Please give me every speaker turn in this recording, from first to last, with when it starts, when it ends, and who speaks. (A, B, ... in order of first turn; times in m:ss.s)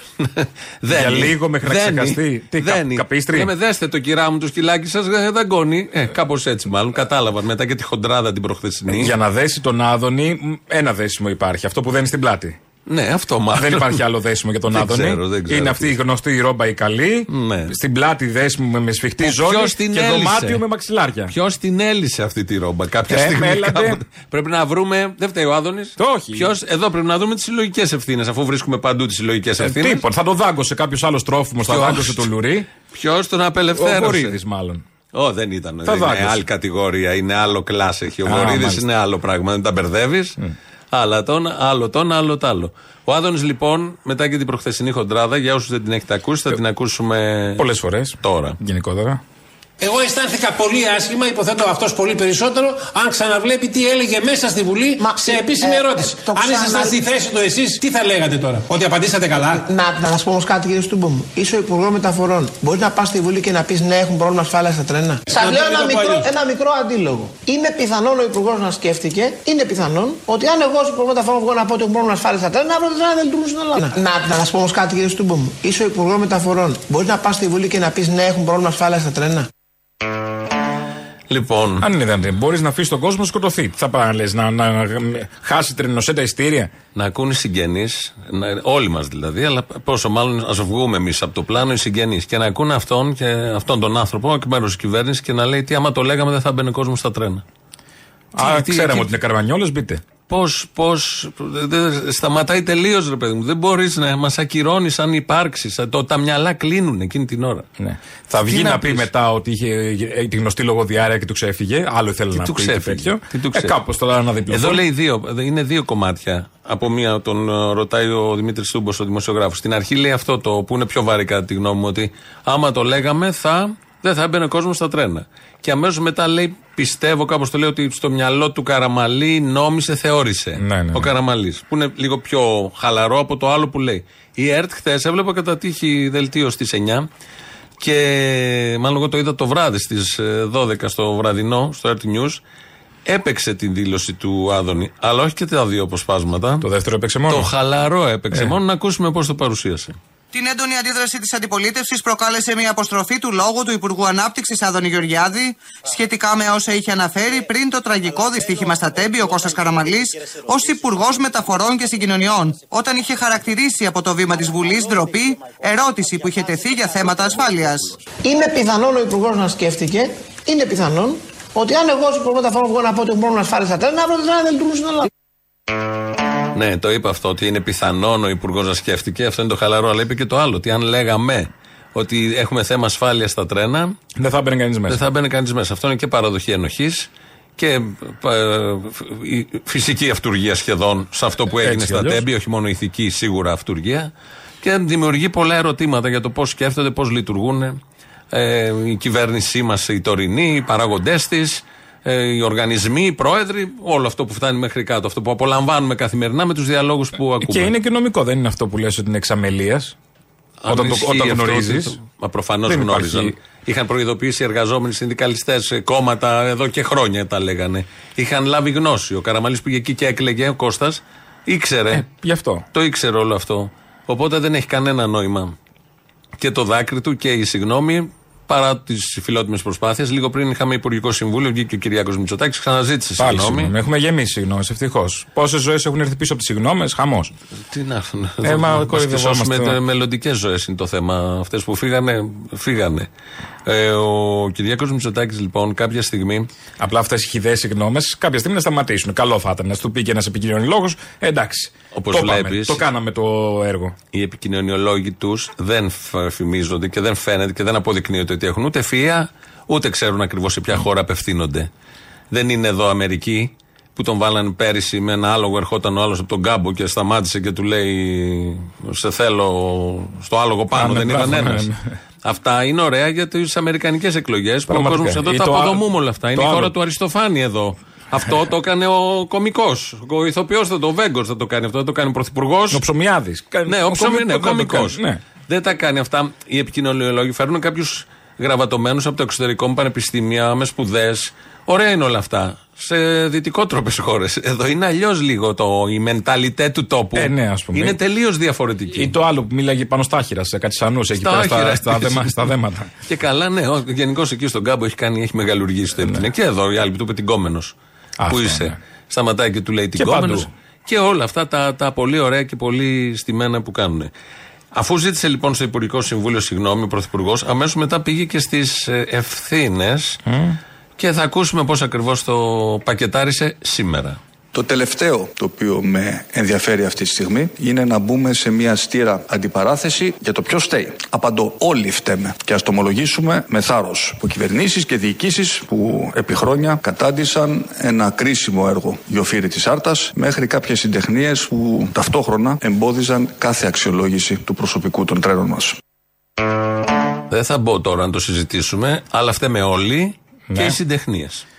0:00.2-0:09.1 A
0:00.9-0:03.5 B
0:08.9-0:12.6 B
0:12.9-0:14.0 A
0:13.6-0:21.3 B
0:14.7-0:15.9 A
0:17.3-0:17.7 A
0:19.2-0:20.6 A
0:21.3-0:30.0 A
0:23.1-0:24.0 B
0:26.0-0:26.5 B
0:29.6-0:32.6 B
0:31.6-0:32.3 A
0:32.9-0:34.4 A
0:33.7-0:34.8 B
0:35.1-0:40.4 A
0:35.8-0:36.4 B
0:38.2-0:38.8 B
0:40.9-0:47.6 A
0:47.6-0:49.2 B
0:48.2-0:48.6 A
0:49.8-0:59.6 C
0:55.0-0:57.0 D
0:59.6-1:19.5 D
1:05.3-1:06.3 C
1:21.3-1:21.8 A
1:21.8-1:26.7 B
1:26.9-1:37.4 A
1:38.3-1:40.0 B
1:38.4-1:39.1 A
1:40.3-1:47.7 A
1:47.8-1:54.8 B
1:48.4-1:49.1 A
1:52.3-1:53.8 A
1:54.5-2:17.1 A
2:10.6-2:11.1 B
2:17.8-2:22.4 A
2:23.1-2:26.6 A
2:26.6-2:27.5 B
2:27.3-2:30.0 A
2:30.3-2:48.0 E
2:48.2-2:55.1 D
2:56.6-3:04.0 A
3:04.2-3:05.0 B
3:04.9-3:14.1 A
3:11.6-3:12.2 B
3:14.6-3:17.8 A
3:18.3-3:27.7 A
3:27.4-3:29.9 B
3:30.6-3:42.0 A
3:30.7-3:32.0 B
3:32.7-3:33.4 B
3:41.9-3:42.6 B
3:42.7-3:45.6 A
3:46.4-3:53.7 A
3:53.2-3:57.3 B
3:57.7-4:03.1 A
3:58.4-3:59.8 B
4:03.6-4:06.5 A
4:06.8-4:13.9 B
4:11.9-4:12.8 A
4:14.1-4:21.7 A
4:22.3-4:31.7 A
4:30.7-4:31.9 B
4:32.2-4:42.8 A
4:34.7-4:36.7 B
4:42.7-4:45.2 B
4:43.7-4:59.1 A
4:57.2-4:58.0 B
4:58.9-5:02.9 B
5:01.2-5:02.5 A
5:03.1-5:07.7 A
5:06.0-5:06.3 B
5:08.2-5:08.8 B
5:08.3-5:14.1 A
5:10.0-5:10.5 B
5:14.7-5:20.2 A
5:20.2-5:20.6 B
5:21.0-5:24.2 A
5:24.5-5:45.8 F
5:47.3-5:51.4 A
5:50.5-5:50.8 B